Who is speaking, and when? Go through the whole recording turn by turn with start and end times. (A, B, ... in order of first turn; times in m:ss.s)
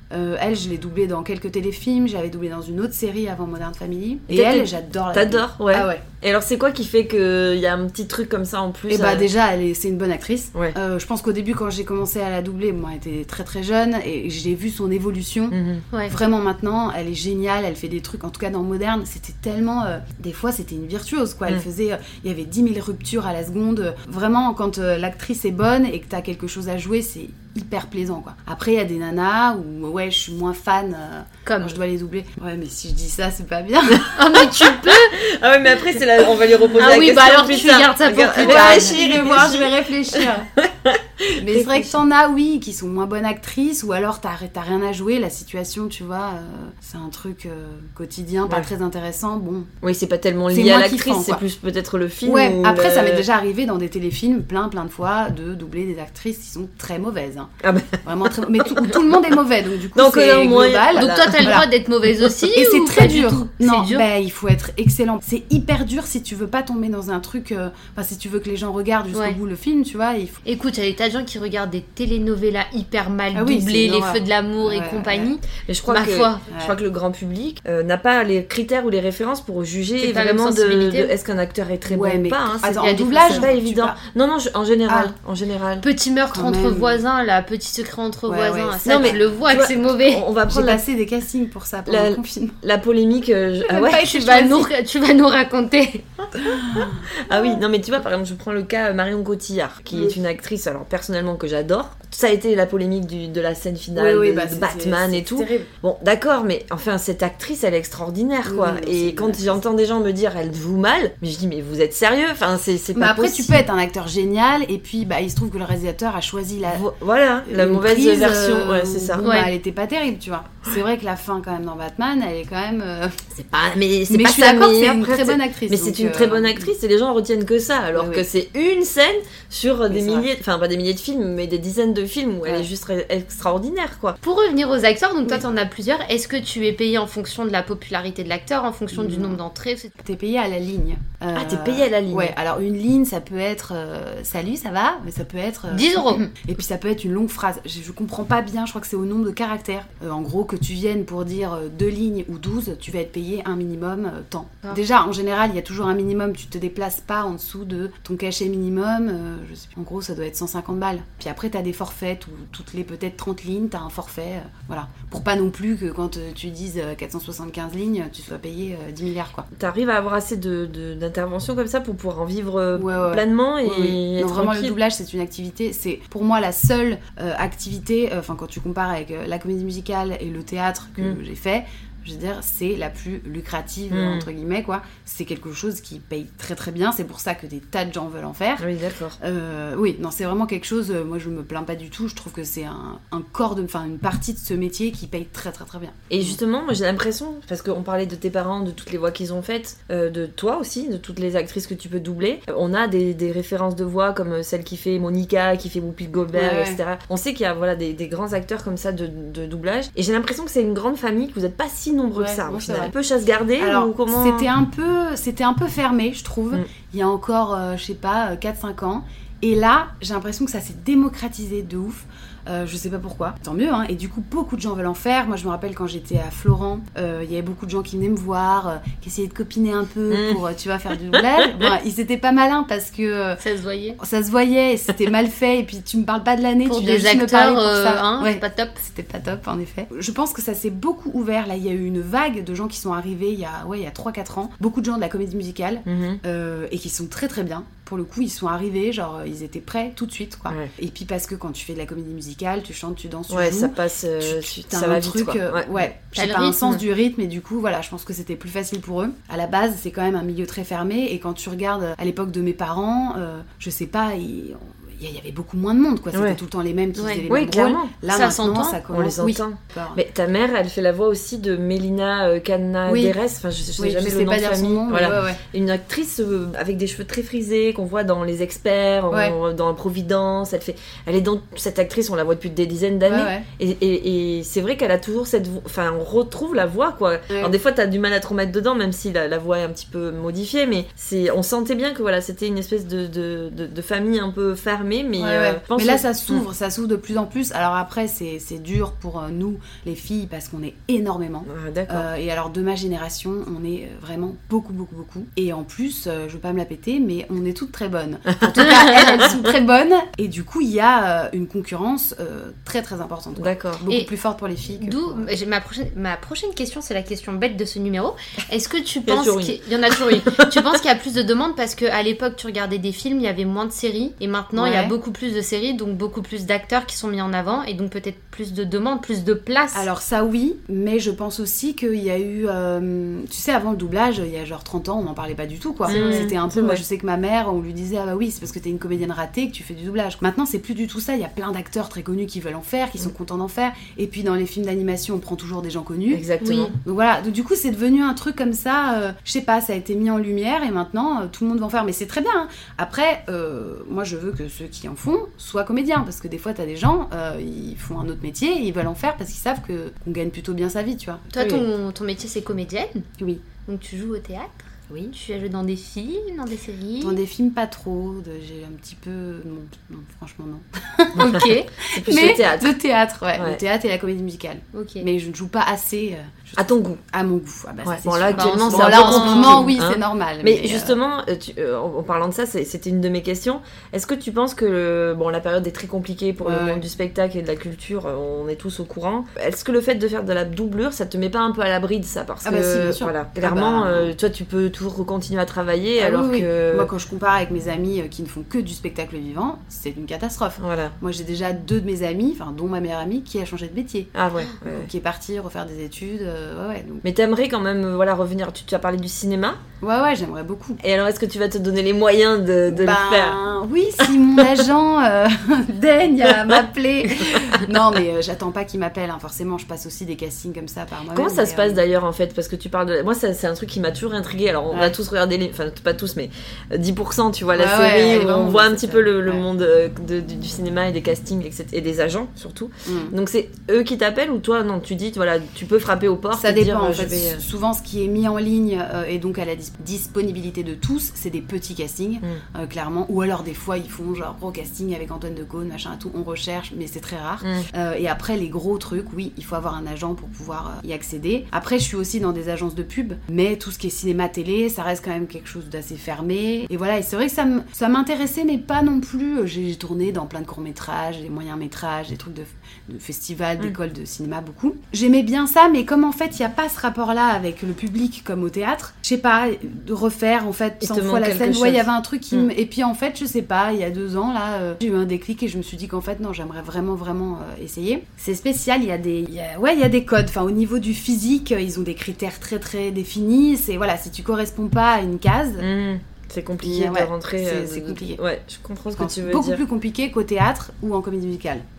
0:00.1-0:06.0 A
0:04.3-0:09.3 B
0:08.9-0:34.2 A
0:15.5-0:15.8 B
0:31.4-0:31.8 C
0:34.1-0:41.9 B
0:34.1-0:35.1 C
0:36.8-0:39.0 C
0:38.3-0:40.5 A
0:41.4-0:49.7 A
0:49.8-0:53.3 B
0:50.5-0:51.4 A
0:52.2-0:57.5 A
0:57.6-0:59.0 B
0:58.0-1:01.7 A
0:59.9-1:01.6 B
1:00.9-1:04.0 C
1:02.5-1:10.4 A
1:09.1-1:09.4 C
1:10.4-1:16.4 C
1:13.3-1:15.3 A
1:15.6-1:25.8 B
1:16.5-1:16.8 A
1:20.0-1:21.1 C
1:21.9-1:24.0 A
1:22.8-1:23.5 C
1:24.9-1:25.1 A
1:25.8-1:30.2 C
1:26.3-1:27.0 A
1:28.3-1:29.2 A
1:28.8-1:30.8 B
1:30.5-1:32.6 A
1:31.9-1:34.1 B
1:33.6-1:34.7 A
1:33.9-1:36.0 C
1:36.4-1:37.5 A
1:36.8-1:53.6 B
1:39.9-1:40.2 A
1:43.9-1:45.7 A
1:48.4-1:49.6 A
1:52.9-1:56.9 A
1:56.6-1:59.3 B
1:57.4-2:03.2 A
1:59.2-1:59.5 C
2:03.3-2:14.2 B
2:04.1-2:06.7 A
2:07.9-2:08.2 A
2:09.9-2:10.3 A
2:14.2-2:19.9 C
2:18.9-2:19.4 A
2:20.0-2:49.4 A
2:21.3-2:22.3 B
2:25.7-2:26.3 C
2:49.5-2:54.7 B
2:52.7-3:08.6 A
3:03.9-3:04.3 B
3:08.6-3:09.2 B
3:09.2-3:16.4 A
3:16.1-3:34.5 B
3:26.3-3:26.8 A
3:32.1-3:32.9 A
3:33.6-3:53.4 A
3:50.1-3:50.4 B
3:53.4-3:54.0 C
3:54.0-4:30.0 A
3:56.6-3:58.8 C
4:05.8-4:06.2 B
4:13.3-4:15.8 B
4:16.1-4:16.6 C
4:26.1-4:26.4 B
4:26.9-4:27.2 C
4:27.3-4:27.9 B
4:28.1-4:28.8 C
4:28.9-4:56.4 B
4:32.8-4:33.2 A
4:33.8-4:35.4 A
4:39.1-4:39.4 A
4:43.0-4:43.4 A
4:47.3-4:47.5 A
4:55.2-5:15.3 A
5:01.4-5:02.1 B
5:08.3-5:09.1 B
5:08.6-5:09.1 C
5:13.4-5:13.8 B
5:14.8-5:29.9 C
5:19.1-5:20.6 B
5:24.5-5:24.9 A
5:29.7-5:46.2 A
5:35.9-5:36.3 C
5:35.9-5:36.8 B
5:46.1-5:46.7 B
5:46.4-5:46.7 C
5:46.8-6:01.3 A
6:01.3-6:07.2 C
6:01.4-6:01.6 B
6:03.2-6:03.4 A
6:07.0-6:21.0 A
6:11.2-6:11.7 C
6:11.3-6:12.8 B
6:13.4-6:13.6 B
6:14.7-6:15.1 C
6:16.6-6:17.0 B
6:17.8-6:36.9 B
6:18.3-6:19.8 C
6:26.4-6:26.8 A
6:32.4-6:34.1 A
6:36.0-6:47.0 A
6:40.6-6:40.9 B
6:44.1-6:44.9 B
6:47.0-6:49.6 B
6:49.8-6:50.8 A
6:50.8-6:53.4 B
6:52.7-7:01.8 A
6:57.3-6:57.6 B
7:01.1-7:17.4 B
7:04.7-7:04.9 A
7:07.5-7:09.4 A
7:12.8-7:13.1 A
7:16.3-8:05.7 A
7:27.4-7:27.7 B
7:50.8-7:52.5 B
8:05.6-8:09.6 B
8:06.6-8:08.2 A
8:08.9-8:11.6 A